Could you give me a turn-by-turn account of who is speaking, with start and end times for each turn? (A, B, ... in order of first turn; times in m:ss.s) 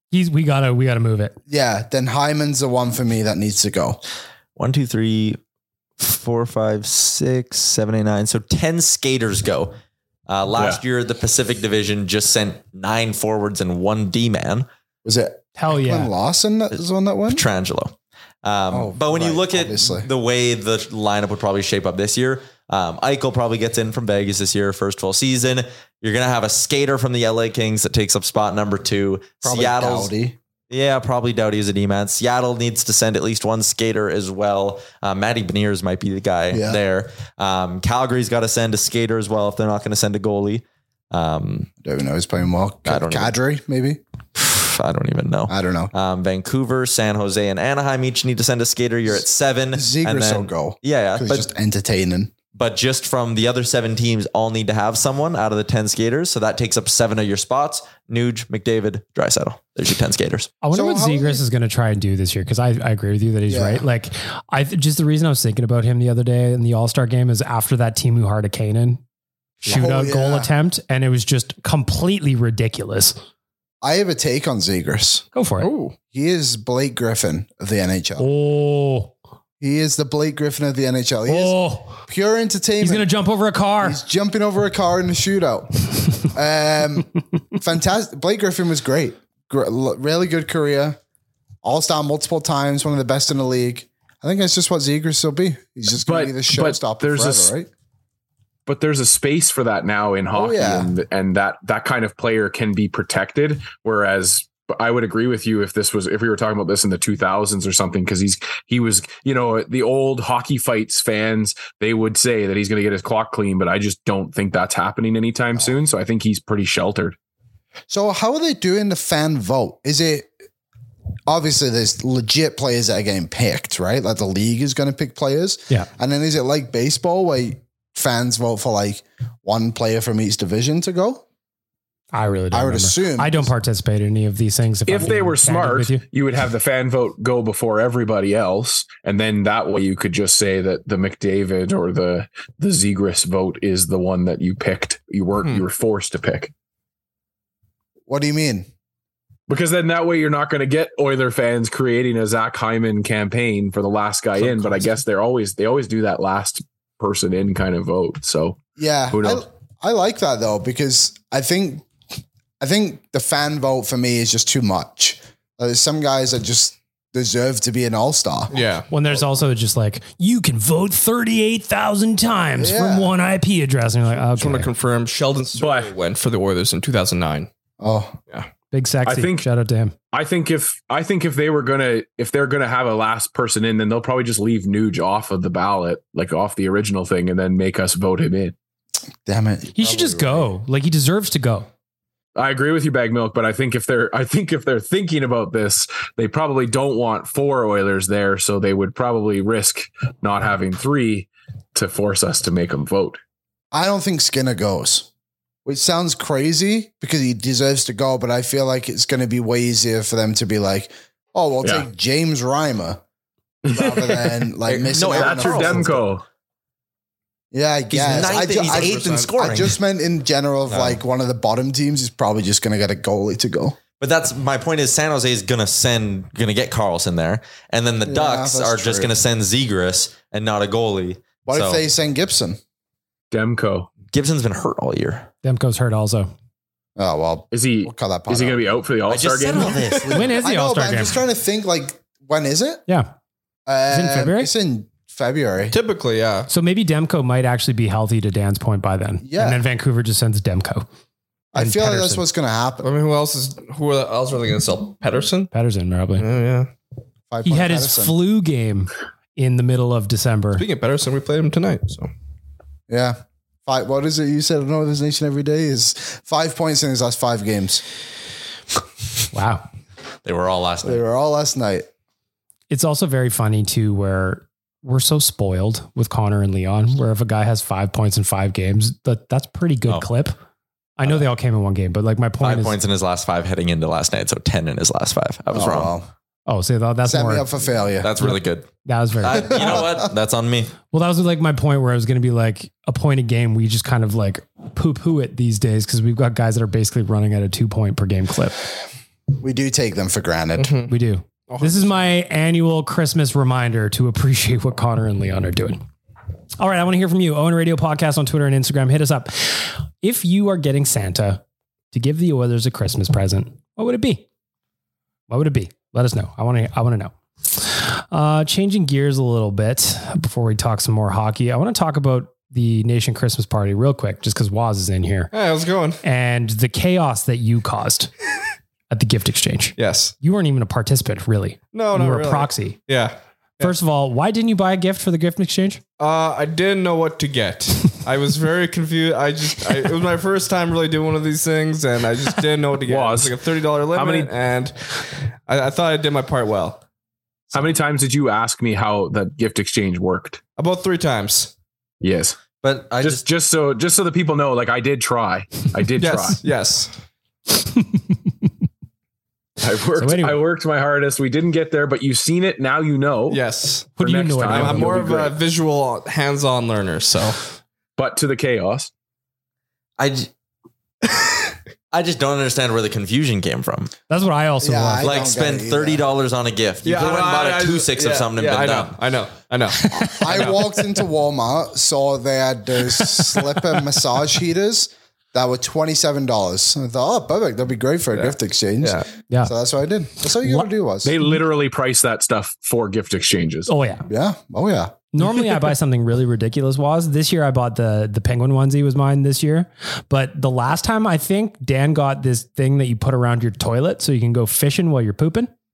0:00.1-0:01.4 A
0:01.5-0:04.0 B
0:04.6-0:05.4 C
0:06.0-0:09.8 C
0:10.3-0:14.7 C
0:10.5-0:10.8 D
0:15.0-0:17.4 B
0:15.6-0:16.1 A
0:17.3-0:30.1 C
0:18.7-0:20.1 B
0:29.4-0:30.4 B
0:30.7-0:41.7 C
0:36.5-0:36.8 B
0:41.8-0:44.0 B
0:42.9-0:43.3 C
0:44.4-0:51.5 C
0:45.5-0:45.9 B
0:49.7-0:52.3 B
0:52.6-1:00.5 C
1:00.6-1:09.0 A
1:00.7-1:01.4 B
1:03.5-1:03.9 B
1:09.6-1:13.2 A
1:09.6-1:10.5 B
1:13.8-1:15.2 B
1:15.4-1:15.7 A
1:15.6-1:16.0 E
1:16.1-1:18.3 B
1:18.2-1:19.1 A
1:19.6-1:23.1 B
1:21.3-1:22.0 A
1:22.8-1:24.0 A
1:23.8-1:31.0 B
1:31.6-1:37.7 B
1:36.0-1:37.5 D
1:38.7-1:57.2 D
1:40.3-1:40.9 B
1:57.9-2:00.3 B
2:01.3-2:11.2 B
2:12.1-2:16.0 A
2:12.5-2:13.5 B
2:14.9-2:26.5 D
2:25.4-2:25.7 E
2:28.1-2:28.7 B
2:29.5-2:39.4 D
2:34.3-2:35.0 E
2:38.8-2:41.9 B
2:42.6-2:48.6 B
2:48.5-2:48.9 E
2:48.9-2:54.7 A
2:52.6-2:53.1 B
2:54.3-2:57.5 E
2:55.6-2:55.9 D
2:57.8-2:58.2 B
2:58.7-2:59.9 A
2:59.0-2:59.5 D
3:00.1-3:08.5 D
3:09.3-3:10.5 B
3:09.8-3:11.7 A
3:12.4-3:23.2 D
3:23.7-3:25.1 B
3:25.6-3:33.0 B
3:33.6-3:36.0 B
3:33.6-3:36.2 D
3:34.7-3:36.0 C
3:37.5-3:43.8 B
3:37.9-3:39.8 C
3:38.1-3:39.4 E
3:40.7-3:41.0 C
3:44.0-3:51.8 C
3:48.0-3:49.1 B
3:51.5-3:52.6 B
3:53.3-3:53.9 D
3:54.1-3:55.3 C
3:55.4-3:56.3 A
3:57.0-3:58.7 B
3:57.5-3:59.8 D
3:59.1-4:00.4 C
4:00.1-4:01.2 A
4:00.4-4:02.8 B
4:03.7-4:05.8 B
4:03.9-4:04.5 A
4:05.7-4:06.5 E
4:06.5-4:10.9 A
4:09.2-4:09.6 B
4:11.5-4:12.9 B
4:11.6-4:12.2 A
4:12.8-4:15.5 E
4:15.5-4:16.3 A
4:16.2-4:16.7 E
4:17.3-4:18.2 B
4:17.4-4:20.6 A
4:20.6-4:22.1 E
4:22.9-4:27.8 B
4:29.3-4:29.6 A
4:30.2-4:31.0 C
4:30.8-4:31.9 B
4:32.7-4:40.4 A
4:41.0-4:42.8 A
4:42.4-4:45.9 C
4:45.5-4:46.1 B
4:46.5-4:47.5 A
4:47.0-4:48.1 B
4:48.0-4:48.7 C
4:48.2-4:49.6 A
4:49.2-4:50.7 C
4:49.3-4:50.0 B
4:50.9-4:58.6 A
4:59.4-5:00.7 B
5:00.6-5:01.0 E
5:00.9-5:05.8 A
5:01.5-5:02.1 E
5:06.6-5:11.4 A
5:11.9-5:14.2 A
5:15.3-5:25.3 A
5:25.3-5:26.0 E
5:26.0-5:28.1 A
5:28.9-5:32.8 A
5:29.8-5:30.1 E
5:31.7-5:33.8 E
5:33.6-5:35.8 A
5:36.0-5:46.8 E
5:42.8-5:44.3 D
5:47.5-5:50.4 D
5:50.6-5:51.5 E
5:52.0-5:52.4 D
5:52.6-5:53.2 C
5:53.0-5:56.4 D
5:56.0-5:56.9 E
5:59.6-6:03.4 D
6:00.0-6:00.4 A
6:03.3-6:07.4 E
6:04.0-6:05.1 A
6:04.0-6:05.4 D
6:08.0-6:08.9 D
6:10.0-6:10.3 C
6:11.9-6:13.9 C
6:14.1-6:15.1 A
6:14.6-6:16.0 B
6:15.0-6:19.0 C
6:16.8-6:20.7 E
6:19.8-6:20.2 A
6:19.9-6:31.2 B
6:28.1-6:29.1 E
6:30.4-6:30.7 A
6:31.0-6:33.7 D
6:33.7-6:34.0 A
6:34.1-6:35.0 B
6:35.1-6:45.5 A